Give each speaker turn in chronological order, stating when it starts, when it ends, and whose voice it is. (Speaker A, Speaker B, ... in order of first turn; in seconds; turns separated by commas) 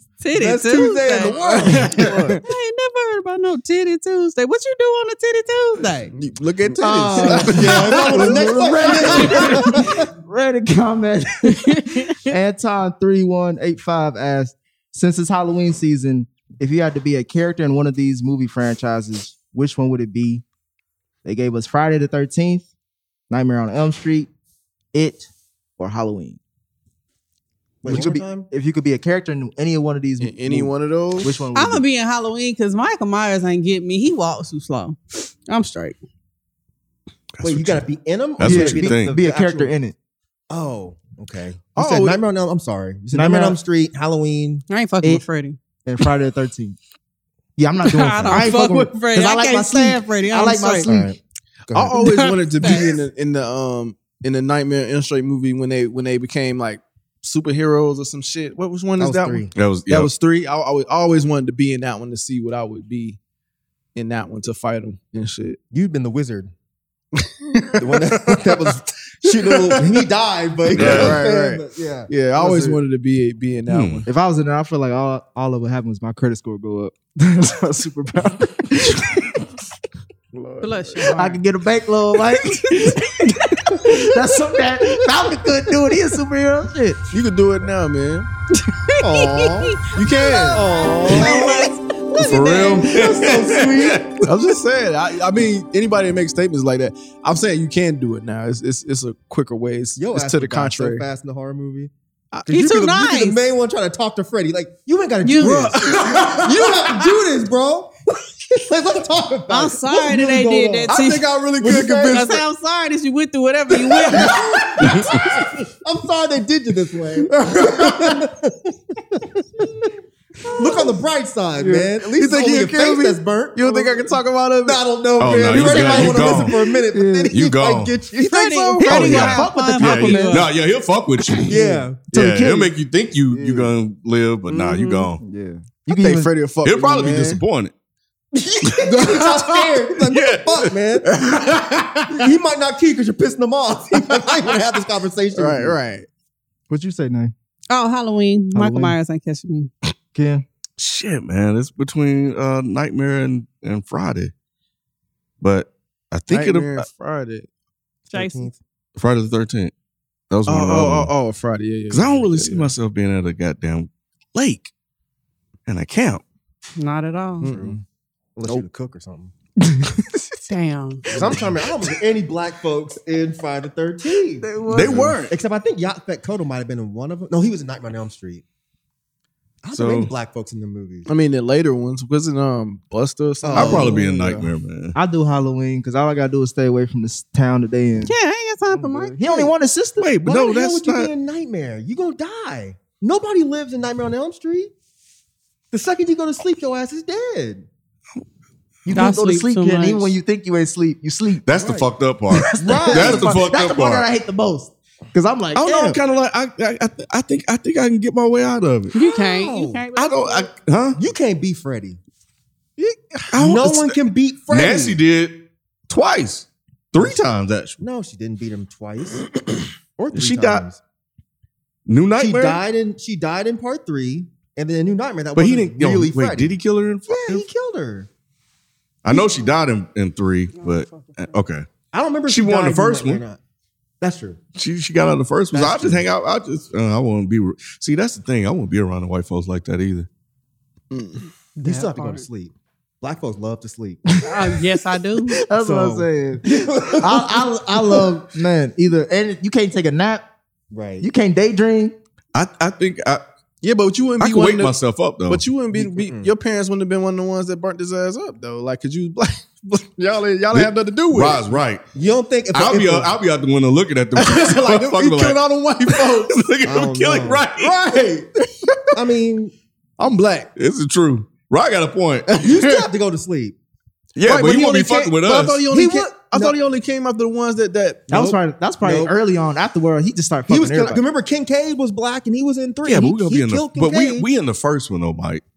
Speaker A: 0.2-1.8, Speaker B: 0.3-2.4, Speaker C: 1.4-2.2, Speaker A: 2.4-6.1, Speaker C: 6.2-9.6, Speaker B: 6.8-10.1, Speaker D: 6.8-20.4, Speaker A: 11.4-12.3, Speaker D: 21.2-22.7, Speaker D: 23.3-24.3, Speaker D: 24.9-26.4, Speaker B: 27.8-28.5, Speaker D: 27.9-31.9, Speaker C: 30.2-31.4, Speaker A: 31.6-36.0, Speaker E: 37.4-37.9, Speaker B: 37.4-39.7, Speaker E: 38.4-39.2, Speaker D: 38.4-40.0, Speaker B: 40.5-44.6, Speaker C: 41.8-42.2, Speaker D: 43.1-43.6, Speaker A: 44.7-45.6, Speaker D: 45.9-46.8, Speaker D: 47.6-51.1, Speaker A: 47.8-50.9, Speaker B: 48.3-48.5, Speaker B: 50.9-52.0, Speaker C: 51.7-63.2, Speaker A: 52.0-53.0, Speaker B: 59.0-59.5, Speaker E: 59.5-60.1, Speaker C: 64.0-65.6, Speaker B: 65.7-66.5, Speaker C: 67.2-68.7, Speaker B: 67.8-72.1, Speaker C: 69.2-70.0, Speaker C: 70.7-74.1, Speaker E: 70.8-71.3, Speaker D: 72.4-72.8, Speaker E: 73.7-74.1, Speaker D: 74.1-79.4, Speaker C: 78.9-79.2, Speaker C: 80.3-81.3, Speaker A: 80.6-81.4, Speaker D: 81.1-87.0, Speaker C: 87.1-88.3, Speaker A: 88.7-93.0, Speaker B: 89.0-89.8, Speaker C: 89.9-90.7, Speaker B: 90.5-91.7, Speaker E: 92.2-94.5, Speaker B: 92.8-94.2, Speaker C: 94.2-101.0, Speaker B: 100.0-101.9, Speaker B: 102.5-107.9, Speaker A: 102.5-103.4, Speaker A: 105.2-105.8, Speaker C: 105.4-107.1, Speaker B: 108.5-112.4, Speaker A: 109.5-111.3, Speaker C: 110.9-112.4, Speaker A: 112.1-114.4, Speaker C: 113.9-115.0, Speaker B: 114.1-119.7, Speaker E: 114.9-115.2, Speaker C: 117.3-118.2, Speaker B: 120.6-128.7, Speaker C: 121.6-124.8, Speaker E: 125.2-126.6, Speaker D: 125.5-127.3, Speaker E: 127.3-128.0, Speaker C: 128.2-129.2, Speaker A: 128.2-130.5, Speaker D: 128.8-130.5, Speaker E: 128.8-135.2, Speaker B: 131.5-132.0, Speaker D: 131.5-132.7, Speaker D: 133.3-133.8, Speaker A: 134.5-135.1, Speaker D: 135.2-136.3, Speaker C: 135.9-137.4, Speaker E: 136.6-137.7, Speaker B: 138.4-141.1, Speaker C: 138.8-140.2, Speaker C: 141.0-142.2, Speaker B: 142.1-145.8, Speaker C: 145.3-146.1, Speaker D: 146.7-147.3, Speaker A: 147.7-149.7, Speaker D: 148.5-149.0, Speaker D: 150.1-150.4, Speaker E: 150.8-154.3, Speaker E: 155.4-156.9, Speaker C: 156.3-157.5, Speaker A: 158.1-158.5, Speaker B: 158.1-158.6, Speaker E: 159.0-159.7, Speaker E: 160.3-161.1, Speaker C: 160.5-162.7, Speaker E: 161.9-164.7, Speaker E: 165.7-166.2, Speaker A: 166.8-167.5, Speaker C: 167.4-167.8, Speaker B: 167.5-167.8, Speaker B: 168.4-169.3, Speaker D: 169.6-170.2, Speaker A: 170.5-171.1, Speaker B: 171.1-174.5, Speaker C: 171.1-171.4, Speaker D: 174.4-175.2, Speaker E: 174.7-175.3, Speaker C: 174.8-175.1, Speaker B: 175.3-178.4, Speaker B: 179.6-181.1, Speaker E: 179.7-180.1, Speaker C: 181.1-184.5, Speaker B: 183.4-184.0, Speaker E: 183.5-185.0, Speaker D: 184.9-188.1, Speaker A: 188.1-189.2, Speaker B: 188.7-189.5, Speaker D: 189.2-190.1, Speaker E: 190.0-191.1, Speaker B: 190.2-194.7, Speaker B: 195.7-197.7, Speaker D: 198.9-201.8, Speaker A: 198.9-200.2, Speaker E: 201.4-204.1, Speaker B: 202.6-203.4, Speaker D: 202.6-206.0, Speaker E: 205.6-208.9, Speaker A: 208.9-210.5, Speaker B: 209.0-209.8, Speaker E: 210.0-211.0, Speaker B: 210.9-212.0, Speaker C: 212.8-213.2, Speaker E: 213.3-214.0, Speaker B: 213.3-215.0, Speaker E: 214.5-217.8, Speaker B: 217.8-219.3, Speaker B: 220.0-220.8, Speaker E: 220.1-220.7, Speaker E: 221.9-222.6, Speaker B: 222.2-228.1, Speaker E: 225.3-227.5, Speaker E: 229.0-231.7, Speaker A: 229.1-229.5, Speaker A: 230.5-231.4, Speaker B: 231.9-233.4, Speaker E: 232.3-233.2, Speaker B: 234.0-234.4, Speaker E: 234.6-240.1, Speaker B: 235.5-236.1, Speaker C: 240.9-241.3, Speaker A: 241.6-242.3, Speaker B: 241.6-244.0, Speaker A: 244.2-245.4, Speaker D: 245.4-250.3, Speaker B: 245.5-248.2, Speaker B: 250.7-251.1, Speaker D: 251.0-251.9, Speaker E: 252.3-253.2, Speaker C: 253.6-254.8, Speaker E: 254.2-255.5, Speaker C: 255.3-261.5, Speaker B: 255.7-256.3, Speaker E: 260.5-261.8, Speaker B: 261.9-263.2, Speaker E: 262.5-267.7, Speaker C: 264.2-266.4, Speaker B: 266.6-268.3, Speaker C: 268.6-268.9, Speaker B: 268.9-269.5, Speaker C: 270.0-270.5, Speaker E: 270.6-272.4, Speaker C: 272.3-272.8, Speaker B: 272.4-273.6, Speaker E: 274.2-275.7, Speaker C: 274.2-278.4, Speaker B: 275.7-276.6, Speaker D: 278.1-281.0, Speaker B: 278.8-279.1, Speaker B: 280.5-284.3, Speaker E: 282.9-285.4